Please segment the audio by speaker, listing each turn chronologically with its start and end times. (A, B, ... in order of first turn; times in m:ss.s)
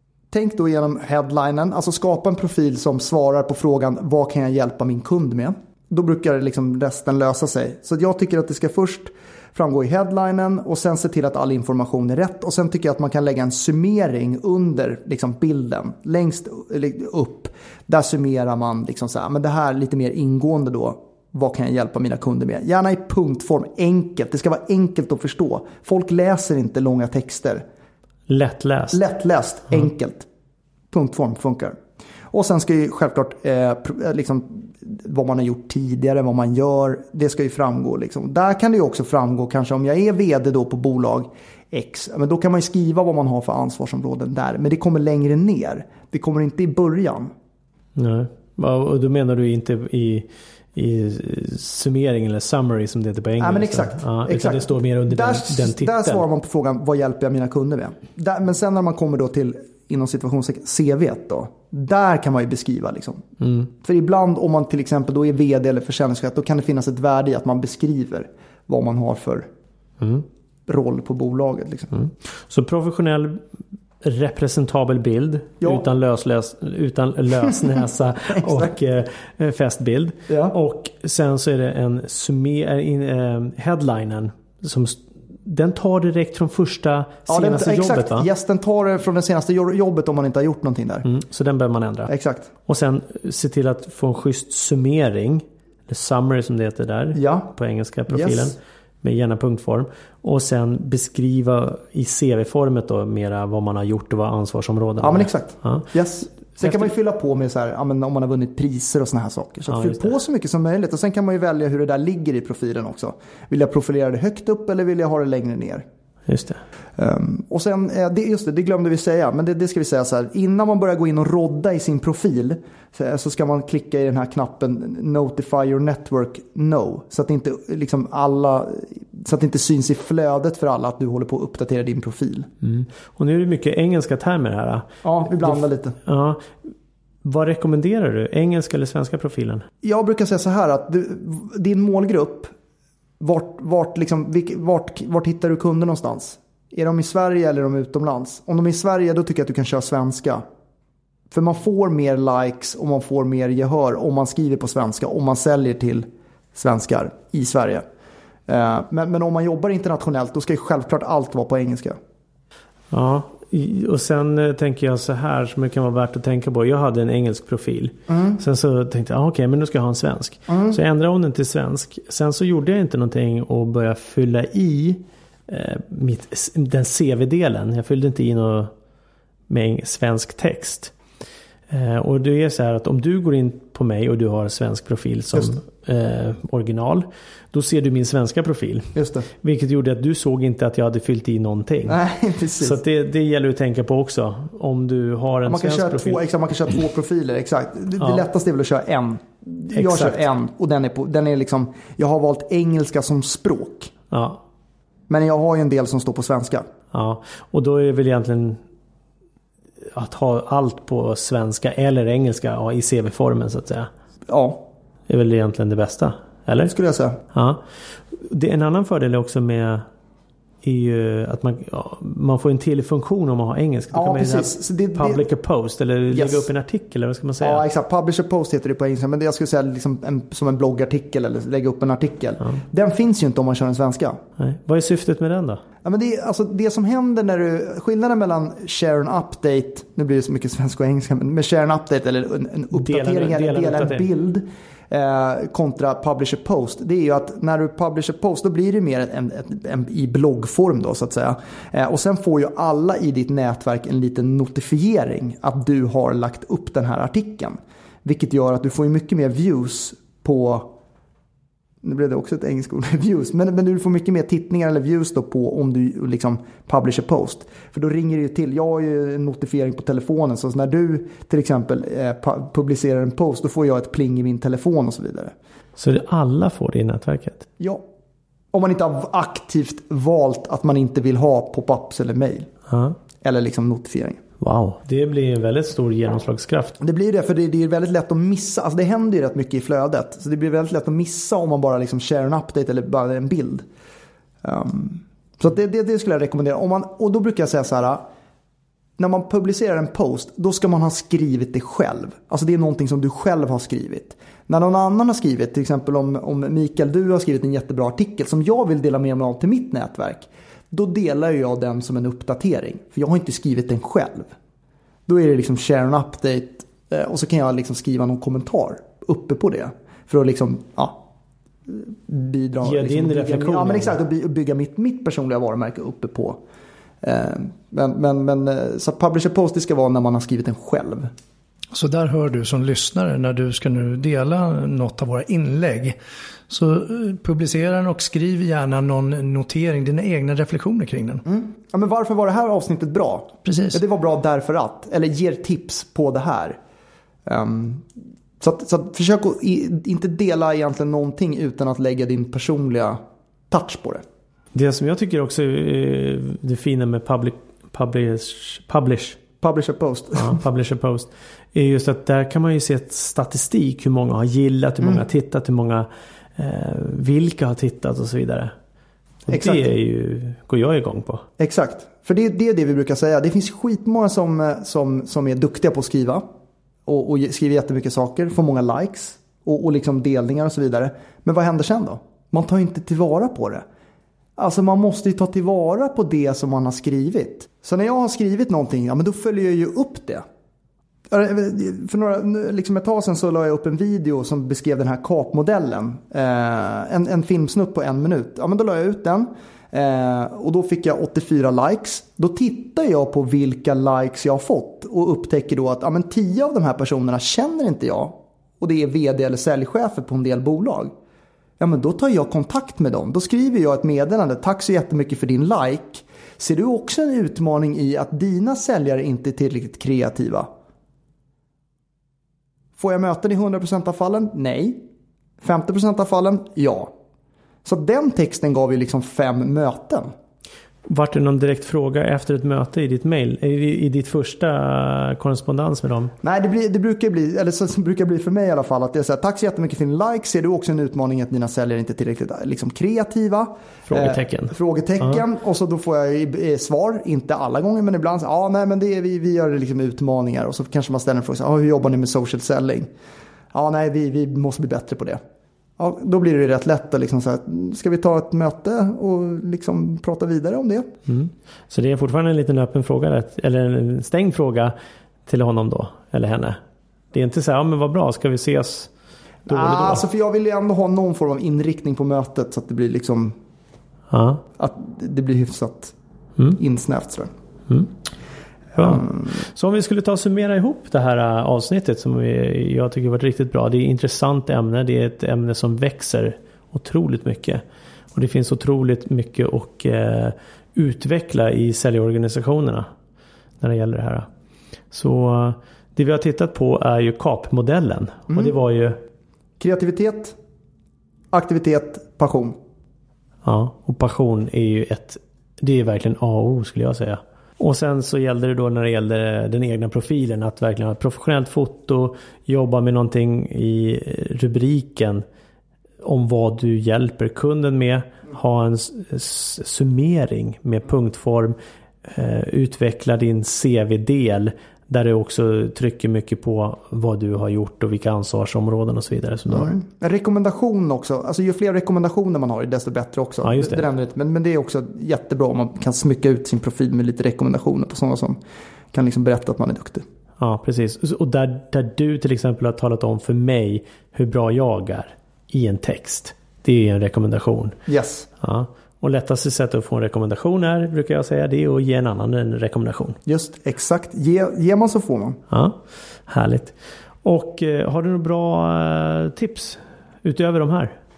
0:00.3-0:27.6 A
0:28.3-0:29.0 B
0:28.9-0:30.3 A
0:30.9-0:31.8 A
0:32.3-0:47.3 A
0:48.0-0:56.2 B
0:53.4-1:09.5 A
1:03.4-1:03.7 B
1:10.7-1:11.9 A
1:11.9-1:13.4 B
1:14.0-1:28.3 B
1:18.4-1:18.7 A
1:20.3-1:20.6 A
1:27.3-1:31.1 A
1:31.0-1:32.1 B
1:32.1-1:32.5 A
1:32.7-1:45.9 B
1:37.2-1:37.5 A
1:38.1-1:38.6 A
1:45.0-1:55.8 A
1:49.7-1:50.1 B
1:56.3-1:56.6 B
1:57.0-2:12.5 A
2:12.6-2:14.9 B
2:15.0-2:16.0 A
2:15.4-2:16.5 B
2:17.2-2:19.7 B
2:19.8-2:22.5 A
2:23.2-2:30.4 A
2:31.3-2:37.8 A
2:38.5-2:42.0 A
2:42.9-2:58.7 B
2:48.1-2:48.4 A
2:50.5-2:50.8 A
2:59.5-3:00.9 B
3:01.7-3:12.0 B
3:09.0-3:09.3 A
3:11.9-3:12.8 A
3:12.6-3:16.2 B
3:15.5-3:23.9 A
3:19.7-3:20.2 B
3:24.1-3:24.4 B
3:25.1-3:26.7 A
3:26.9-3:28.6 B
3:29.9-3:33.9 B
3:34.3-3:34.6 A
3:35.1-3:36.7 B
3:36.7-3:37.2 A
3:37.3-3:37.6 B
3:38.1-3:39.9 B
3:40.6-3:47.6 B
3:43.9-3:45.2 A
3:46.1-3:46.5 A
3:47.4-3:54.2 A
3:54.4-3:55.6 B
3:55.8-4:20.7 A
4:02.7-4:04.1 B
4:21.8-4:35.3 A
4:35.8-4:37.5 B
4:38.5-4:42.5 A
4:42.7-4:43.0 B
4:43.2-4:44.2 A
4:44.4-4:46.8 B
4:46.8-4:53.6 A
4:54.4-4:58.0 A
4:59.0-5:14.3 A
5:15.1-5:21.0 A
5:21.7-5:26.4 A
5:22.6-5:24.0 B
5:27.0-5:31.1 A
5:31.7-5:36.0 C
5:36.5-5:41.2 C
5:41.2-5:46.6 A
5:43.5-5:43.8 C
5:47.3-5:47.9 A
5:48.4-5:53.0 A
5:53.5-5:54.0 A
5:54.6-5:59.2 B
5:59.4-6:00.4 A
6:00.2-6:08.5 B
6:09.3-6:11.2 B
6:09.3-6:09.6 A
6:11.4-6:16.2 A
6:16.9-6:23.6 A
6:24.4-6:30.2 A
6:31.1-6:50.9 A
6:51.6-7:00.5 A
7:02.8-7:04.8 A
7:05.4-7:06.9 A
7:07.6-7:10.1 A
7:10.9-7:16.1 B
7:16.2-7:32.9 A
7:23.9-7:25.2 B
7:33.5-7:35.2 A
7:35.8-7:40.9 A
7:41.1-7:44.7 B
7:45.3-7:46.6 B
7:47.1-7:48.9 B
7:49.5-7:50.0 B
7:49.5-7:53.4 A
7:54.1-7:54.4 B
7:54.6-7:56.0 A
7:56.5-7:57.3 A
7:58.8-8:07.6 B
7:58.8-7:59.2 A
8:08.1-8:12.9 B
8:13.6-8:14.3 B
8:14.9-8:19.0 B
8:19.6-8:20.4 A
8:21.3-8:22.6 A
8:23.4-8:35.2 B
8:36.0-8:49.7 B
8:49.5-8:58.4 A
8:53.4-8:53.8 B
8:58.9-9:00.0 A
9:00.4-9:07.8 B
9:07.9-9:08.3 A
9:08.4-9:13.2 B
9:13.3-9:15.4 A
9:15.5-9:15.8 B
9:16.3-9:21.0 B